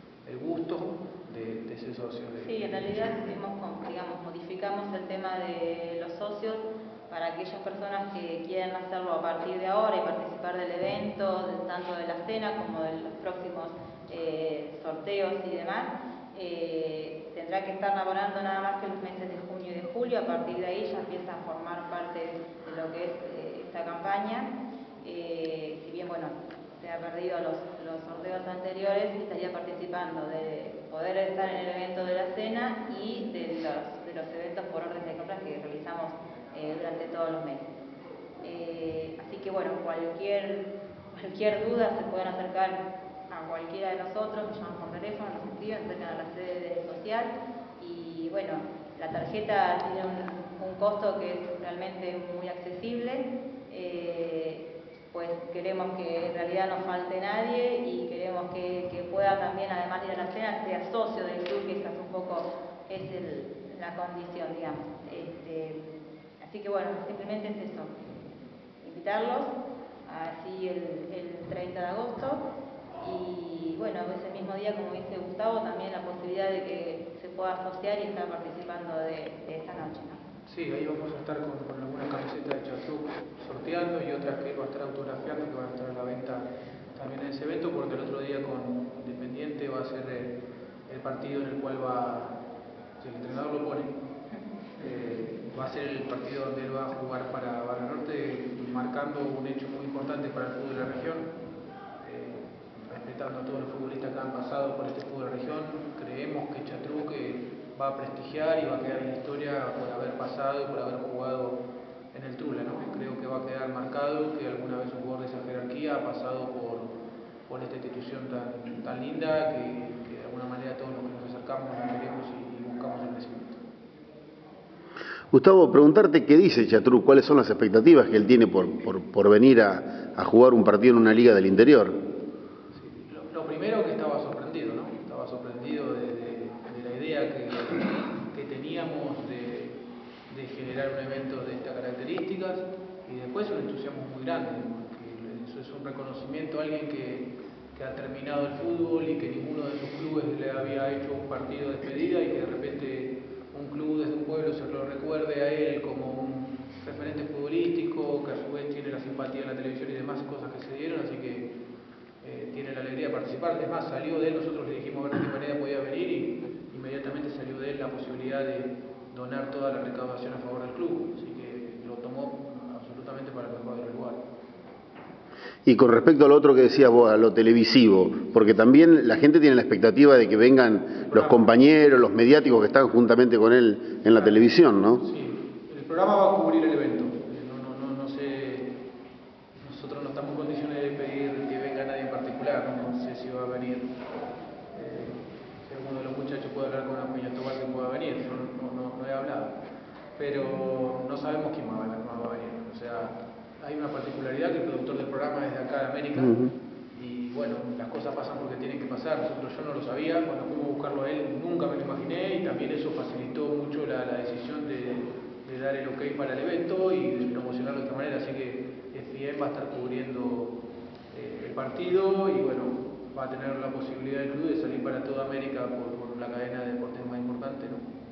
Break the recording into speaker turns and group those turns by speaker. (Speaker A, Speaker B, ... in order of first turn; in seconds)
Speaker A: 0.2-3.2, 80.5-90.4, 90.9-92.4, 93.0-93.9, 94.8-101.3, 102.0-111.6, 112.1-116.9, 117.5-123.6, 132.7-139.8, 140.3-161.5, 162.2-174.2, 181.1-181.5, 184.1-188.8, 189.6-193.9, 194.7-199.6, 200.2-206.4, 206.9-220.6, 221.1-227.9
Speaker B: 2.4-24.5, 25.0-37.7, 38.4-65.8, 66.4-67.9, 68.8-69.5, 70.1-72.4, 73.0-80.2
Speaker C: 125.3-131.9, 175.7-185.0, 206.2-206.5